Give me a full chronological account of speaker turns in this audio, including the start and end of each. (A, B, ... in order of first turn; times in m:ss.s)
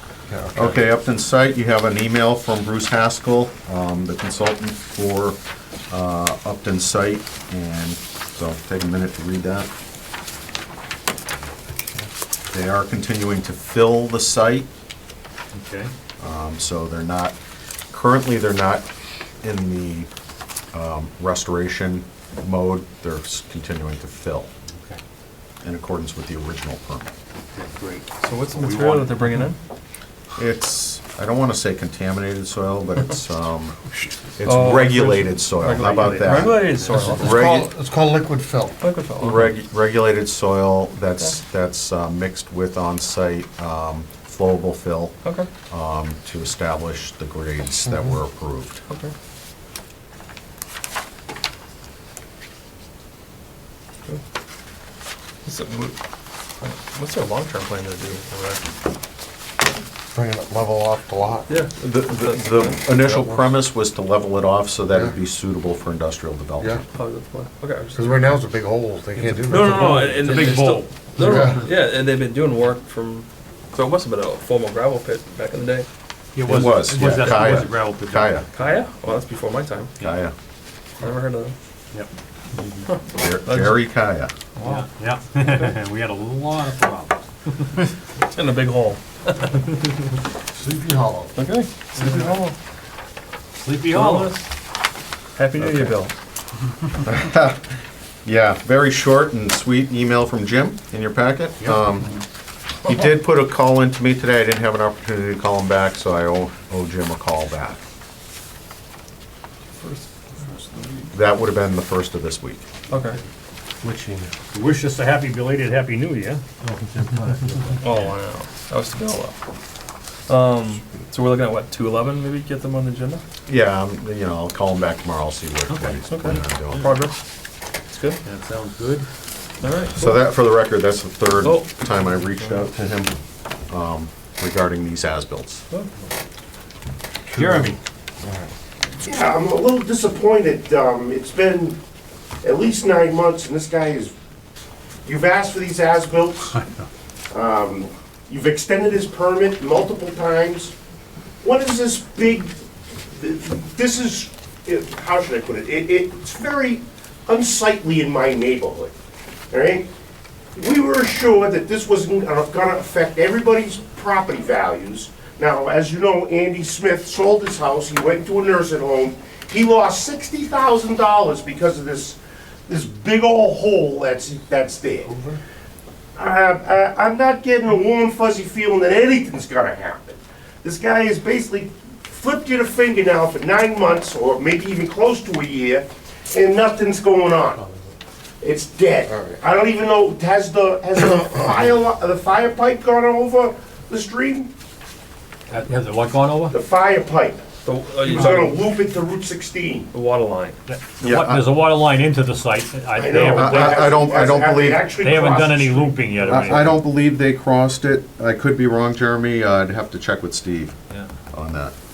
0:00.3-0:00.6 A
0:00.5-0:05.4 B
0:05.9-0:09.7 B
0:12.5-0:14.7 B
0:15.5-0:15.9 C
0:16.2-0:17.4 B
0:17.9-0:18.9 B
0:19.4-0:20.1 B
0:20.7-0:24.5 B
0:24.7-0:25.0 C
0:25.6-0:27.1 B
0:27.5-0:29.4 C
0:28.2-0:29.6 D
0:30.4-0:33.8 B
0:34.4-0:37.7 B
0:34.4-0:37.5 D
0:36.8-0:37.2 C
0:37.3-0:38.8 A
0:38.8-0:39.6 D
0:39.2-0:45.2 B
0:45.2-0:45.5 D
0:45.7-0:48.8 B
0:48.9-0:49.1 D
0:55.4-0:56.0 D
0:56.6-0:58.6 D
1:00.1-1:01.5 A
1:01.5-1:02.8 D
1:01.8-1:06.8 B
1:06.9-1:08.4 D
1:07.9-1:10.0 A
1:09.3-1:15.9 D
1:09.5-1:11.6 C
1:11.2-1:11.7 A
1:16.3-1:18.4 C
1:16.4-1:18.4 B
1:18.5-1:19.9 D
1:20.0-1:20.3 B
1:21.0-1:21.5 D
1:21.9-1:22.8 C
1:22.9-1:23.9 D
1:23.2-1:24.3 B
1:24.6-1:24.8 D
1:24.6-1:27.6 C
1:25.4-1:25.7 D
1:28.2-1:29.6 D
1:30.5-1:31.3 A
1:31.4-1:32.6 D
1:32.0-1:32.4 C
1:33.6-1:34.4 C
1:33.9-1:34.4 D
1:35.4-1:36.1 D
1:37.0-1:37.7 B
1:38.2-1:42.2 B
1:41.6-1:41.9 C
1:42.8-1:47.8 B
1:49.8-1:51.1 D
1:51.1-1:52.6 B
1:52.9-1:53.2 D
1:53.8-1:54.3 A
1:54.5-1:56.4 C
1:56.8-1:57.7 A
1:57.8-1:59.4 D
2:00.3-2:03.2 D
2:03.5-2:06.9 B
2:05.7-2:06.9 C
2:06.1-2:07.2 D
2:07.9-2:08.2 D
2:08.2-2:09.1 C
2:09.6-2:10.2 D
2:10.0-2:13.1 B
2:11.4-2:11.7 D
2:13.7-2:15.6 B
2:17.4-2:17.7 C
2:17.4-2:17.7 D
2:19.0-2:21.8 E
2:22.4-2:24.1 E
2:25.0-2:26.6 E
2:27.3-2:30.7 E
2:31.4-2:32.5 E
2:33.1-2:38.9 E
2:39.5-2:39.8 E
2:40.5-2:55.1 E
2:56.2-3:07.7 E
3:08.4-3:14.5 E
3:15.5-3:16.6 C
3:16.5-3:17.4 E
3:17.6-3:18.6 D
3:18.1-3:19.9 E
3:19.9-3:20.6 D
3:20.7-3:23.9 C
3:21.0-3:21.6 B
3:22.9-3:26.1 E
3:23.3-3:24.8 B
3:25.0-3:26.8 C
3:26.2-3:30.7 B
3:31.3-3:31.7 B